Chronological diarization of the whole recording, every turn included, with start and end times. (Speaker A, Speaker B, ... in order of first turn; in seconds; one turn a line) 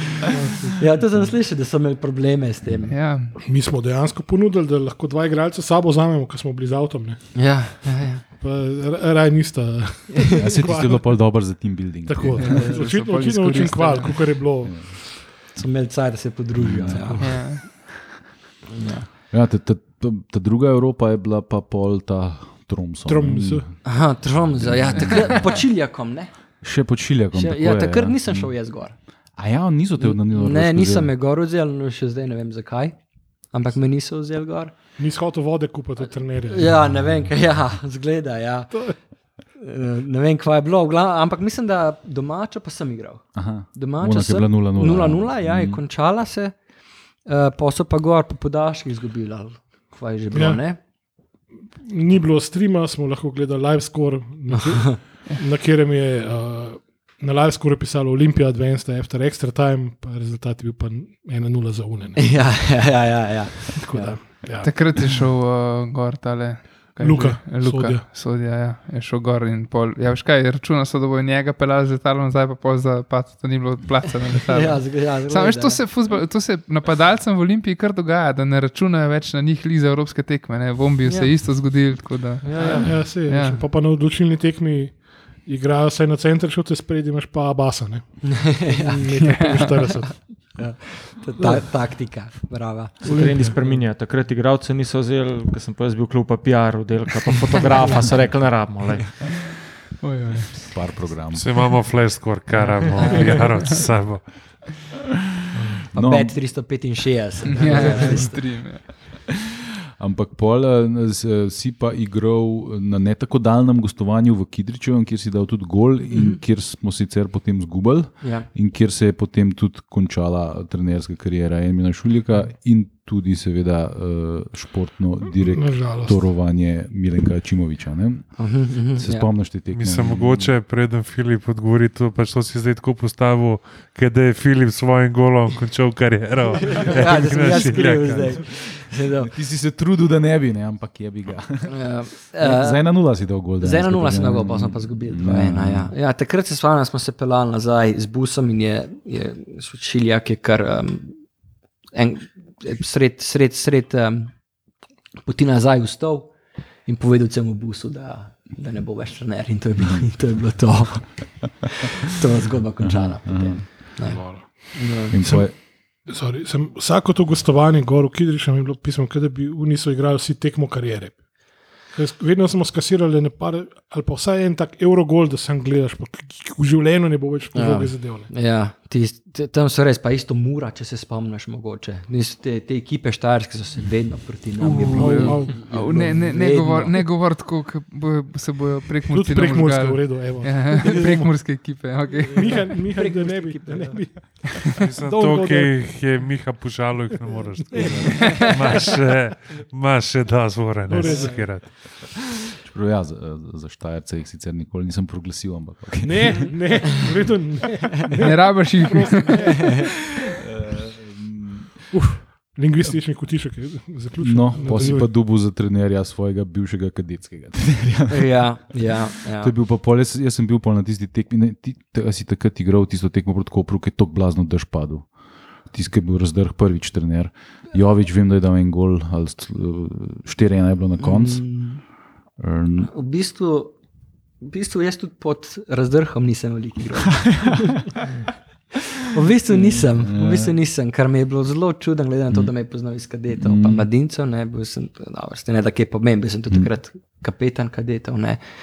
Speaker A: 0.2-0.9
Speaker B: 0.8-2.9
Speaker C: 2.9-3.4
Speaker A: 3.4-7.2
Speaker B: 7.3-8.2
Speaker A: 8.4-11.2
Speaker D: 10.3-12.8
Speaker A: 12.1-15.2
Speaker C: 12.4-14.3
Speaker D: 14.6-14.9
Speaker B: 15.6-17.6
Speaker D: 16.6-17.3
Speaker C: 17.2-17.7
Speaker B: 18.7-19.1
Speaker D: 19.3-23.7
Speaker A: 23.1-23.7
Speaker B: 23.8-26.3
Speaker D: 24.5-25.5
Speaker D: 26.6-28.5
Speaker B: 27.3-28.9
Speaker D: 29.4-31.1
Speaker B: 30.0-33.0
Speaker B: 33.5-34.7
Speaker A: 35.0-36.8
Speaker B: 36.1-38.8
Speaker B: 39.6-46.5
Speaker D: 43.4-45.8
Speaker B: 47.3-50.8
Speaker A: 50.3-50.6
Speaker A: 51.8-62.4
Speaker B: 54.5-55.0
Speaker B: 62.2-64.2
Speaker A: 63.8-64.9
Speaker C: 64.6-83.6
Speaker A: 67.0-68.0
Speaker B: 74.5-75.8
Speaker B: 81.0-81.3
Speaker B: 82.4-82.9
Speaker A: 82.6-90.2
Speaker B: 88.2-89.1
Speaker C: 89.2-89.9
Speaker B: 90.5-93.2
Speaker E: 93.0-99.2
Speaker A: 93.1-93.6
Speaker C: 100.0-100.6
Speaker D: 100.7-101.6
Speaker F: 101.3-104.3
Speaker B: 103.0-103.5
Speaker A: 105.5-105.8
Speaker D: 105.9-106.4
Speaker B: 105.9-108.4
Speaker C: 107.5-108.9
Speaker A: 107.7-108.2
Speaker D: 110.0-128.4
Speaker B: 116.1-116.4
Speaker B: 118.2-118.5
Speaker A: 125.3-126.2
Speaker B: 128.4-129.3
Speaker D: 128.9-130.5
Speaker F: 129.7-138.4
Speaker B: 136.6-139.3
Speaker D: 138.4-145.9
Speaker B: 141.7-142.9
Speaker B: 143.6-151.2
Speaker B: 151.9-154.3
Speaker B: 155.2-156.3
Speaker B: 156.9-165.2
Speaker D: 159.8-160.1
Speaker D: 162.8-163.7
Speaker A: 164.1-164.5
Speaker D: 165.1-165.6
Speaker A: 165.2-165.5
Speaker A: 166.1-171.2
Speaker A: 171.9-178.3
Speaker B: 177.5-187.0
Speaker C: 184.6-192.7
Speaker A: 184.9-185.6
Speaker A: 189.1-191.3
Speaker B: 192.2-194.0
Speaker A: 192.3-195.9
Speaker F: 194.8-201.8
Speaker B: 197.7-198.5
Speaker A: 197.7-198.8
Speaker D: 197.8-198.2
Speaker A: 200.9-201.6
Speaker D: 202.6-206.6
Speaker A: 206.0-209.9
Speaker C: 208.2-209.6
Speaker B: 209.4-209.9
Speaker D: 210.3-211.9
Speaker A: 211.9-215.1
Speaker D: 214.2-218.4
Speaker B: 218.1-219.5
Speaker D: 219.4-225.1
Speaker D: 225.7-231.4
Speaker B: 231.0-231.8
Speaker D: 232.4-232.9
Speaker B: 232.9-233.7
Speaker B: 234.4-237.8
Speaker D: 237.2-237.7
Speaker B: 239.1-248.4
Speaker D: 239.5-240.5
Speaker D: 243.4-243.9